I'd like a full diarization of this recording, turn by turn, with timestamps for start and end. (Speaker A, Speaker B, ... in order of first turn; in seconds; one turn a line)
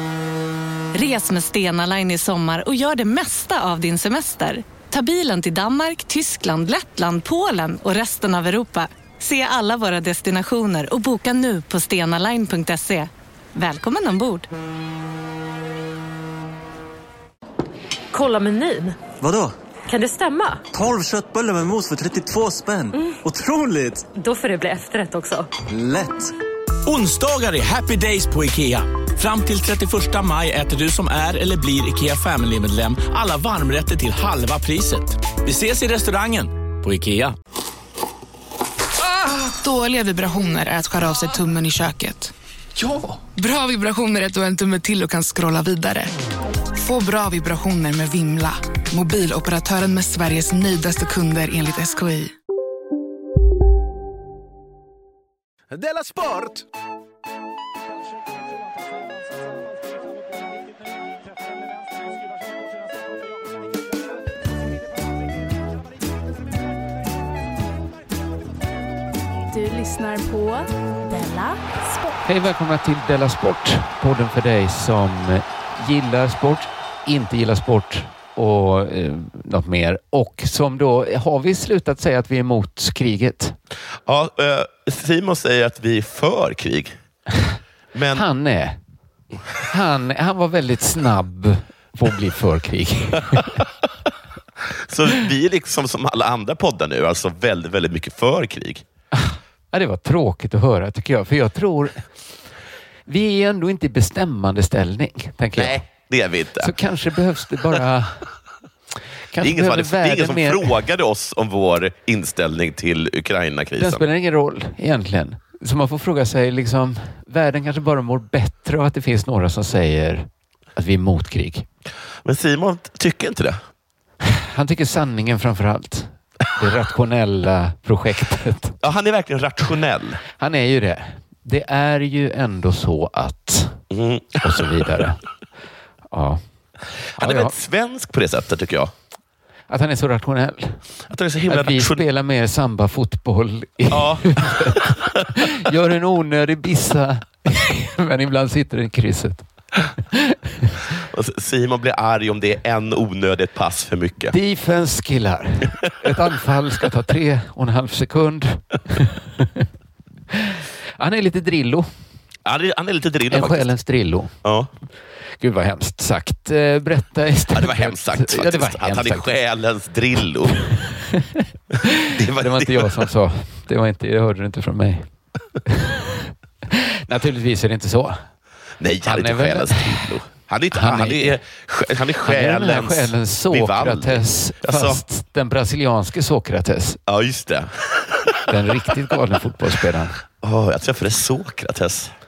Speaker A: 0.9-14.5
Speaker B: 18.1-19.0
Speaker C: 19.1-19.6
Speaker B: 19.9-20.6
Speaker C: 20.7-24.1
Speaker B: 24.1-25.5
Speaker C: 25.7-26.3
Speaker D: 26.9-37.4
Speaker E: 39.2-42.3
Speaker E: 43.1-46.1
Speaker E: 46.8-52.3
Speaker D: 55.8-56.6
Speaker F: 69.5-72.2
Speaker G: 72.2-83.6
Speaker H: 84.1-87.0
Speaker H: 87.9-88.3
Speaker G: 88.1-88.8
Speaker G: 89.3-93.7
Speaker H: 94.7-98.8
Speaker G: 99.1-102.1
Speaker G: 103.1-105.9
Speaker H: 105.6-106.7
Speaker G: 106.6-108.3
Speaker G: 109.3-110.8
Speaker H: 109.4-114.0
Speaker G: 113.8-121.7
Speaker H: 122.2-123.6
Speaker G: 124.2-128.8
Speaker H: 128.8-130.2
Speaker G: 130.4-133.8
Speaker H: 133.9-135.0
Speaker G: 134.4-135.2
Speaker G: 136.1-136.4
Speaker H: 137.1-138.9
Speaker G: 137.2-137.6
Speaker G: 139.7-140.8
Speaker H: 141.1-142.0
Speaker G: 141.5-149.5
Speaker H: 143.9-145.2
Speaker G: 150.0-150.8
Speaker H: 151.1-154.3
Speaker G: 154.3-159.7
Speaker G: 160.3-161.9
Speaker H: 162.4-163.7
Speaker G: 163.3-164.4
Speaker H: 164.4-164.7
Speaker G: 165.4-169.3
Speaker H: 167.5-170.7
Speaker G: 170.7-175.1
Speaker H: 172.1-173.1
Speaker G: 175.7-178.3
Speaker H: 178.8-185.0
Speaker G: 179.1-180.2
Speaker G: 180.7-181.4
Speaker G: 182.2-187.0
Speaker H: 187.1-188.5
Speaker G: 188.5-190.2
Speaker H: 190.4-192.1